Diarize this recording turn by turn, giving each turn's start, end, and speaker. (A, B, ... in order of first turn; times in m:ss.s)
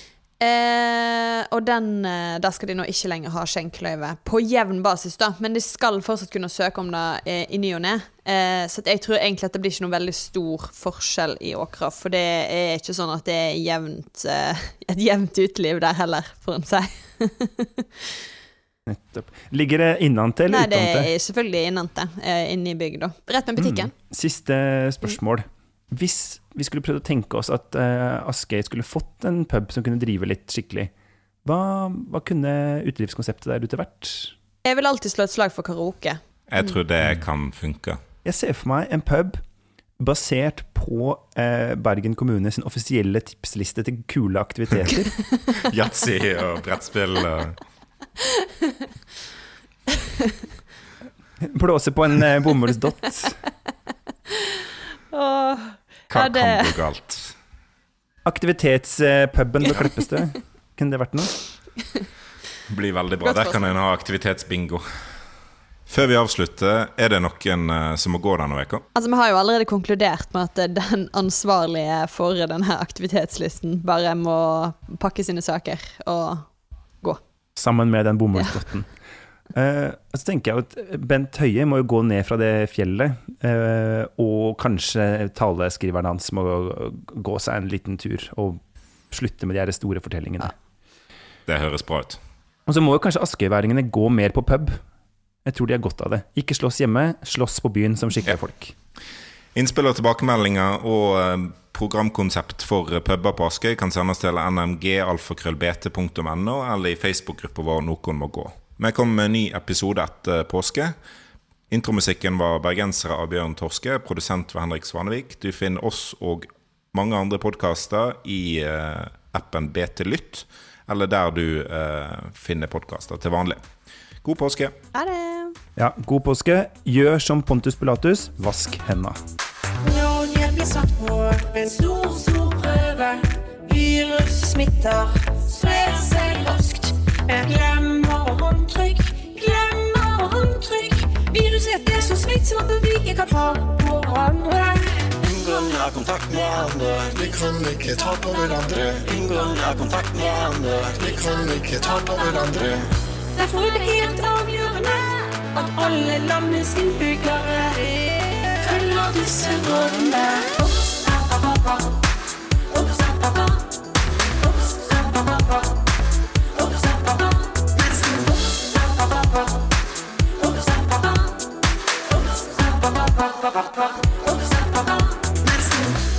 0:00.4-0:18.2 A
0:18.9-0:21.1 B
0:20.5-0:23.9 A
0:23.6-0:30.9 B
0:31.4-0:34.4 B
0:34.6-0:36.2 A
0:36.5-0:38.0 C
0:38.2-0:39.4 B
0:40.0-0:45.1 B
0:45.6-0:47.6 C
0:48.3-0:48.7 A
0:51.4-0:53.4 B
0:55.1-0:56.8 A
0:56.1-0:57.3 C
0:58.2-1:01.4 B
1:02.7-1:04.8 C
1:03.2-1:03.7 A
1:05.9-1:08.8 C
1:09.0-1:16.5 A
1:17.6-1:18.9 B
1:19.5-1:30.5 B
1:31.5-1:32.2 C
1:32.7-1:34.8 B
1:35.4-1:38.8 B
1:39.6-1:51.0 C
1:51.7-2:03.6 C
2:04.2-2:04.8 C
2:04.9-2:05.6 A
2:05.8-2:09.2 B
2:09.8-2:25.1 D
2:25.2-2:27.2 E
2:27.2-2:29.0 F
2:29.1-2:31.0 E
2:31.0-2:32.9 F
2:33.3-2:41.4 D
2:42.7-2:43.6 D
2:46.6-2:47.1 D
2:47.8-2:48.1 D